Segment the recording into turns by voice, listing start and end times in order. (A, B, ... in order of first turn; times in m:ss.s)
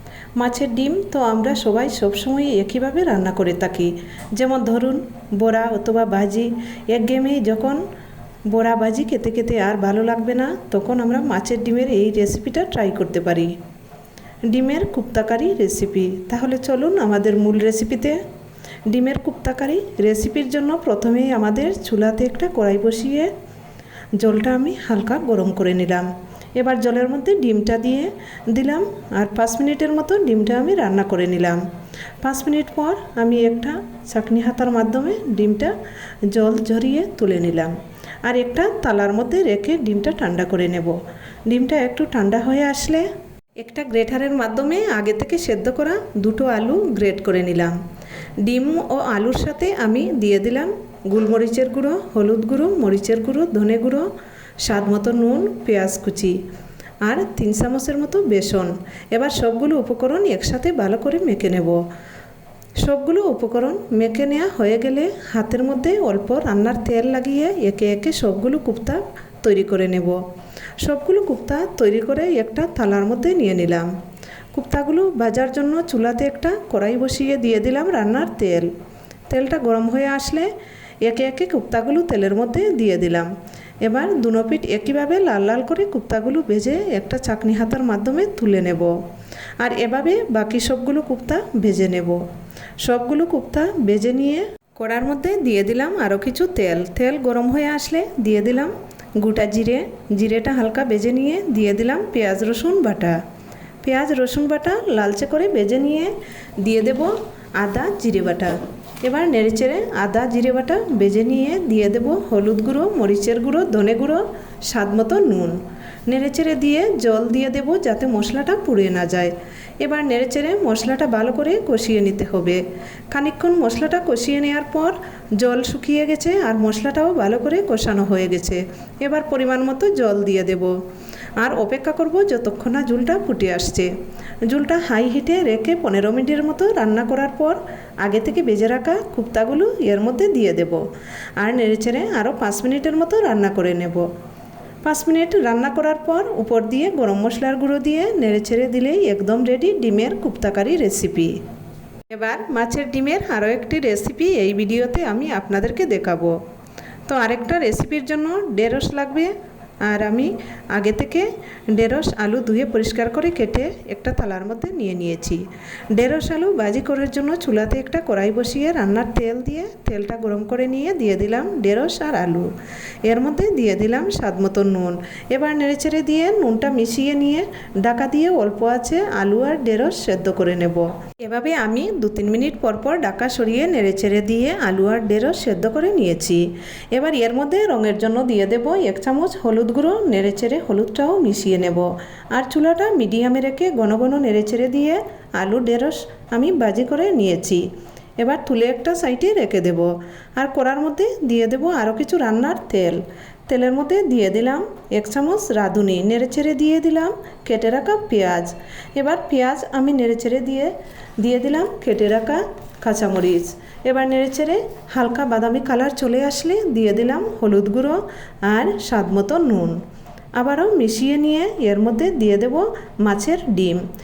0:00.4-0:07.8 A
0:08.5-0:13.5 A
0:14.5-0:18.2 A
0:18.9-0:23.3 A
0:24.2-0:31.6 A
0:32.2-0:35.7 A
0:36.3-0:47.7 A
0:48.4-0:54.1 A
0:54.6-0:56.4 A
0:57.0-1:01.8 A
1:02.8-1:10.2 A
1:10.8-1:13.9 A
1:14.5-1:18.7 A
1:19.3-1:20.5 A
1:21.0-1:23.3 A
1:23.8-1:29.0 A
1:29.6-1:32.2 A
1:32.8-1:43.2 A
1:43.8-2:10.8 A
2:11.4-2:13.9 A
2:14.4-2:20.8 A
2:21.4-2:24.1 A
2:24.8-2:31.4 A
2:32.1-2:36.4 A
2:37.1-2:52.5 A
2:53.0-3:17.7 A
3:18.2-3:39.8 A
3:40.3-3:43.8 A